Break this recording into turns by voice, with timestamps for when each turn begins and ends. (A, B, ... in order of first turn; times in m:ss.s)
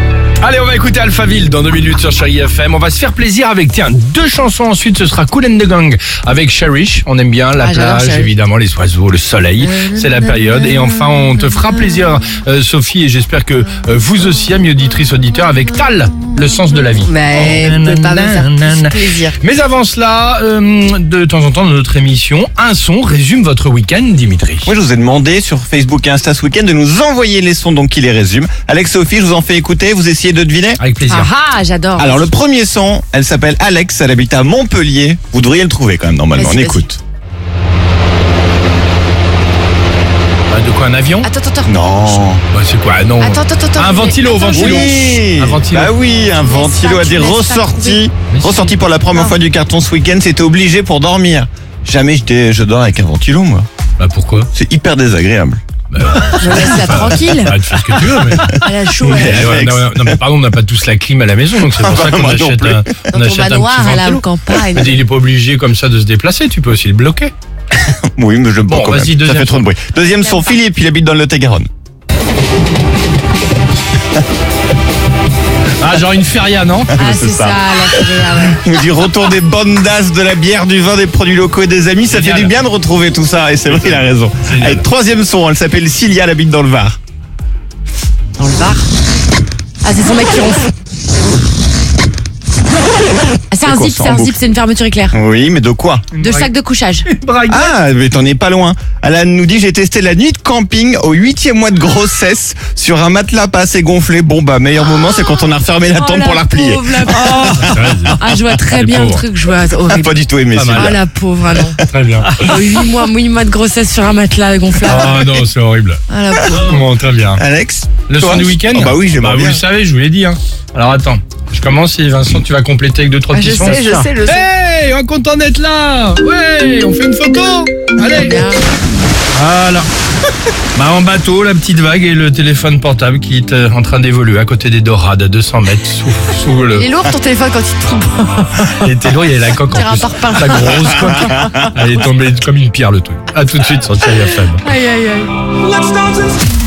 0:00.4-0:24.7 A
0:07.6-0:08.3 B
0:09.6-0:10.4 B
0:17.0-0:19.3 B
0:24.6-0:30.8 C
0:30.8-0:31.3 A
0:31.1-0:32.3 B
0:32.0-0:37.0 C
0:36.3-0:36.9 B
0:40.5-0:41.3 A
0:41.2-0:42.2 B
0:41.6-0:42.4 C
0:42.5-0:45.9 A
0:43.2-0:45.1 B
0:44.5-0:53.7 C
0:46.0-0:48.0 B
0:48.3-0:48.8 A
0:54.0-0:54.5 A
0:54.5-0:55.6 C
0:55.9-0:58.5 A
0:56.3-0:57.6 B
0:57.9-1:00.2 C
0:58.4-0:59.7 B
0:59.1-1:07.3 A
1:01.6-1:03.1 C
1:03.1-1:05.0 B
1:07.7-1:11.7 C
1:08.7-1:09.7 A
1:15.8-1:17.0 A
1:16.9-1:27.0 C
1:16.9-1:18.7 B
1:22.1-1:22.5 A
1:23.6-1:24.8 A
1:28.4-1:28.9 B
1:29.8-1:30.7 B
1:33.5-1:35.2 B
1:33.6-1:34.4 C
1:35.1-1:36.1 C
1:36.1-1:36.5 A
1:36.2-1:37.1 B
1:37.0-1:37.7 A
1:37.5-1:48.4 C
1:45.9-1:50.2 B
1:47.1-1:48.2 A
1:48.7-1:49.2 A
1:49.8-1:51.0 C
1:50.5-1:51.0 A
1:50.7-1:55.3 B
1:51.9-1:52.5 A
1:54.8-1:57.4 A
1:56.1-1:56.8 B
1:57.4-1:59.6 C
1:58.1-2:08.5 A
2:03.3-2:04.5 B
2:08.0-2:08.8 B
2:09.3-2:09.9 A
2:10.7-2:16.9 A
2:16.7-2:18.8 B
2:18.6-2:24.6 A
2:19.6-2:21.7 B
2:24.6-2:25.3 B